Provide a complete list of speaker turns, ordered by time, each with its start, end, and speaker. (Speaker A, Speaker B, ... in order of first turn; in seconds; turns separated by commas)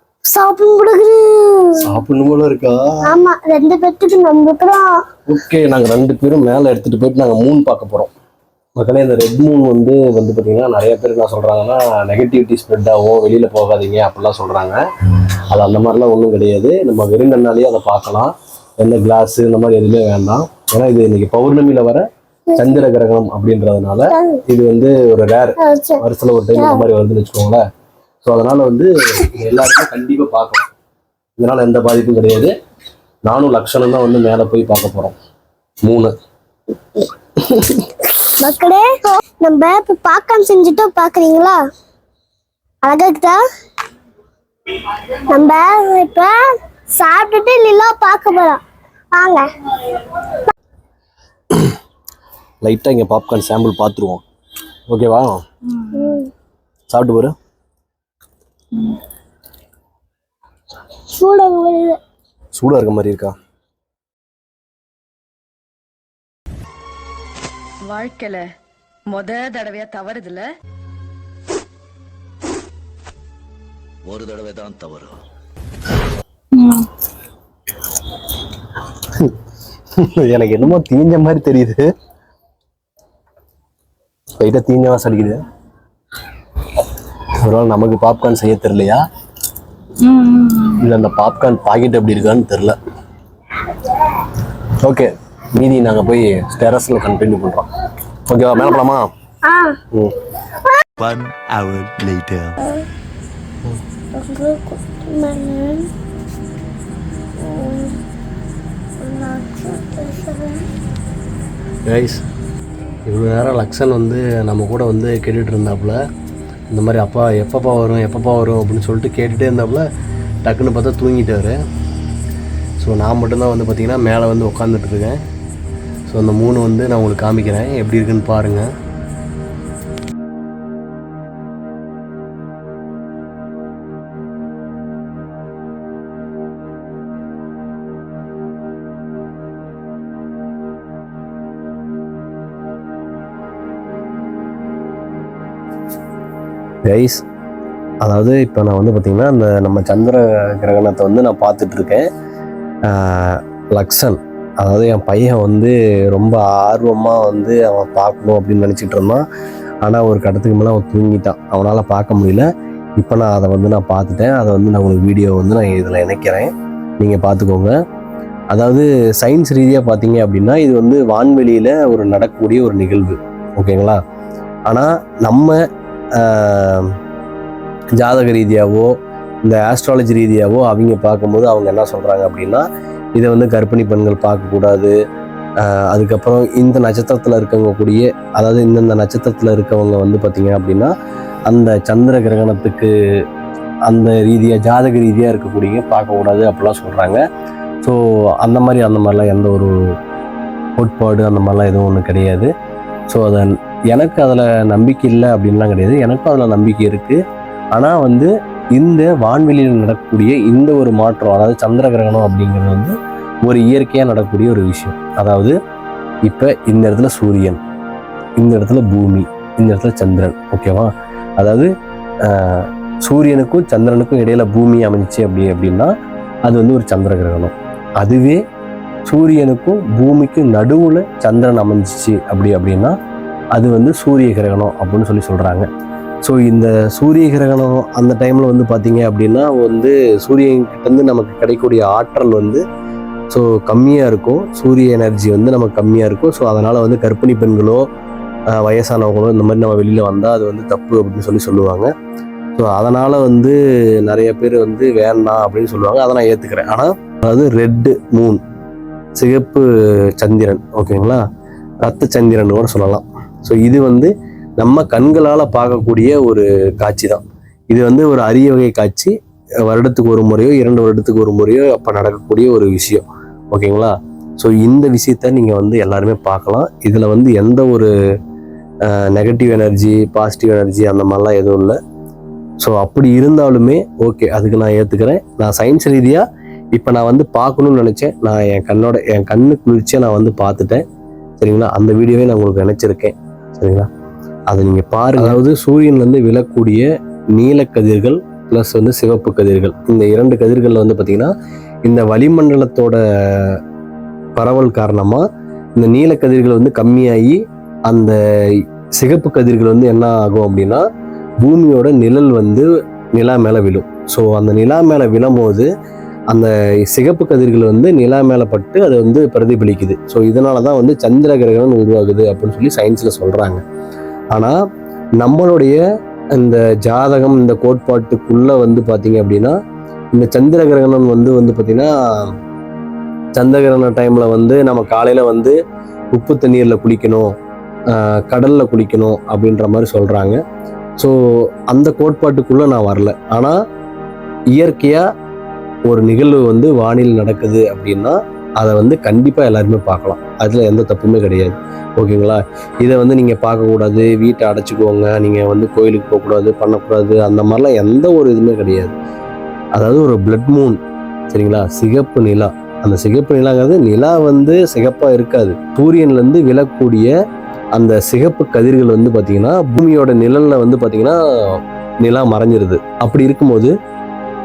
Speaker A: 0.3-1.8, Speaker B: 1.8-3.0, Speaker A: 3.0-5.0, Speaker B: 5.3-8.1, Speaker B: 8.8-14.8, Speaker B: 15.5-27.6, Speaker A: 24.1-24.4, Speaker A: 25.6-26.0, Speaker A: 26.5-26.8, Speaker B: 28.2-30.6, Speaker B: 31.4-32.5, Speaker B: 33.2-35.1, Speaker B: 35.8-36.1, Speaker B: 37.4-37.9, Speaker A: 38.2-41.6, Speaker A: 42.8-43.4, Speaker A: 44.7-46.3, Speaker A: 47.0-48.6, Speaker A: 49.1-50.5, Speaker B: 52.6-54.2, Speaker B: 54.9-55.4, Speaker A: 55.9-56.3, Speaker B: 56.9-57.3, Speaker A: 61.1-62.0, Speaker B: 62.5-63.3, Speaker C: 67.8-68.5, Speaker C: 69.1-70.5, Speaker D: 74.0-75.2, Speaker C: 76.5-76.9, Speaker B: 79.0-79.3, Speaker B: 80.0-81.9, Speaker B: 84.4-85.4, Speaker B: 87.4-89.0, Speaker B: 90.5-92.7, Speaker B: 94.8-97.7, Speaker B: 98.3-99.1, Speaker A: 98.5-98.8, Speaker A: 99.5-99.8, Speaker D: 101.0-102.6, Speaker A: 104.1-105.9, Speaker A: 107.4-108.0, Speaker A: 109.0-110.7, Speaker B: 111.8-112.2, Speaker B: 113.0-116.0, Speaker B: 116.7-119.9, Speaker B: 120.4-121.6, Speaker B: 122.8-125.2, Speaker B: 126.1-128.7, Speaker B: 146.8-147.2, Speaker B: 148.0-152.0, Speaker B: 152.9-159.2, Speaker B: 159.8-167.7, Speaker B: 168.5-174.0, Speaker B: 174.7-175.6, Speaker B: 176.2-176.9, Speaker B: 177.9-178.9, Speaker B: 179.4-182.6, Speaker B: 183.2-184.9, Speaker B: 185.6-190.9, Speaker B: 191.5-192.9, Speaker B: 193.9-197.2, Speaker B: 197.8-199.7, Speaker B: 200.8-202.5, Speaker B: 203.1-207.2, Speaker B: 207.7-212.9, Speaker B: 213.4-215.5, Speaker B: 216.2-217.6, Speaker B: 218.4-221.7, Speaker B: 222.2-225.9, Speaker B: 226.5-228.4, Speaker B: 229.1-232.9, Speaker B: 233.5-235.7, Speaker B: 236.2-242.6, Speaker B: 243.3-247.8, Speaker B: 248.5-251.9, Speaker B: 252.6-258.4, Speaker B: 259.2-259.6, Speaker B: 260.2-261.2, Speaker B: 261.8-269.1, Speaker B: 269.6-277.9, Speaker B: 278.9-281.8, Speaker B: 282.6-286.2, Speaker B: 286.7-290.8, Speaker B: 291.4-293.9, Speaker B: 294.5-301.3, Speaker B: 301.9-303.6, Speaker B: 304.4-305.2, Speaker B: 305.8-308.2, Speaker B: 309.0-310.8, Speaker B: 311.4-315.7, Speaker B: 316.3-323.6, Speaker B: 325.2-325.8, Speaker B: 326.4-329.6, Speaker B: 330.1-332.2, Speaker B: 333.4-335.5, Speaker B: 336.1-337.3, Speaker B: 337.9-340.4, Speaker B: 341.7-343.5, Speaker B: 344.5-345.0, Speaker B: 345.9-358.9, Speaker B: 359.8-360.8, Speaker B: 361.3-367.1, Speaker B: 367.7-373.7